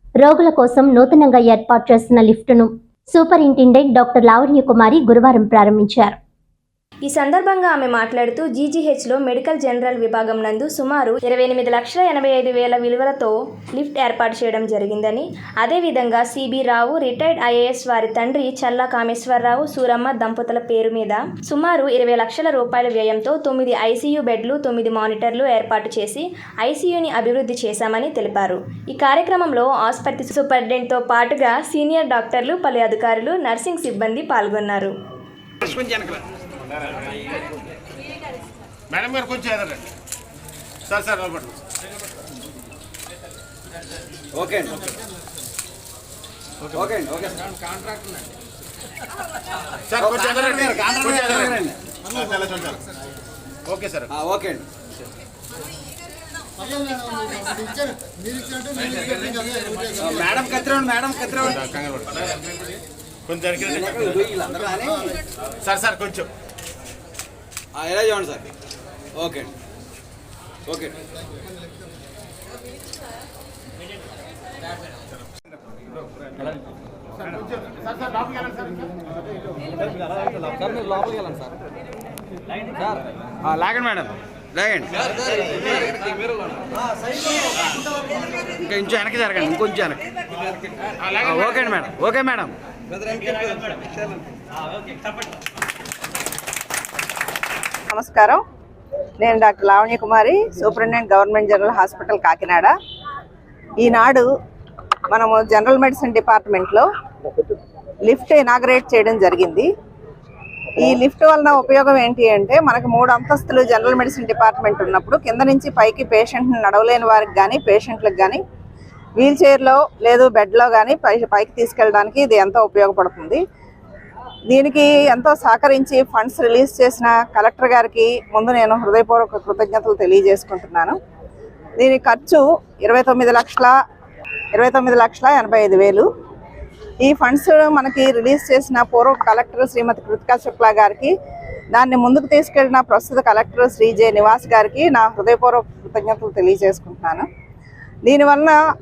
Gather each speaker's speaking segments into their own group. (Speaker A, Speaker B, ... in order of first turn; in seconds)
Speaker A: 0.2-6.2
Speaker B: 7.0-34.9
Speaker C: 35.6-36.0, 38.9-39.8, 40.9-41.5, 49.9-51.3, 53.7-54.0, 61.4-62.1, 63.3-63.6, 65.7-66.3
Speaker D: 44.3-44.7, 46.9-47.4, 50.0-51.7, 54.1-54.6, 60.0-61.3, 63.6-65.0, 67.8-68.5, 69.2-69.5, 70.7-71.0, 83.4-85.1, 88.6-90.0, 91.2-92.5
Speaker E: 97.9-98.4, 99.2-102.7, 103.8-104.3, 105.1-106.9, 108.0-109.7, 110.8-118.4, 119.2-123.4, 124.5-131.0, 131.8-133.7, 134.5-136.1, 137.0-141.1, 141.7-147.2, 148.0-148.6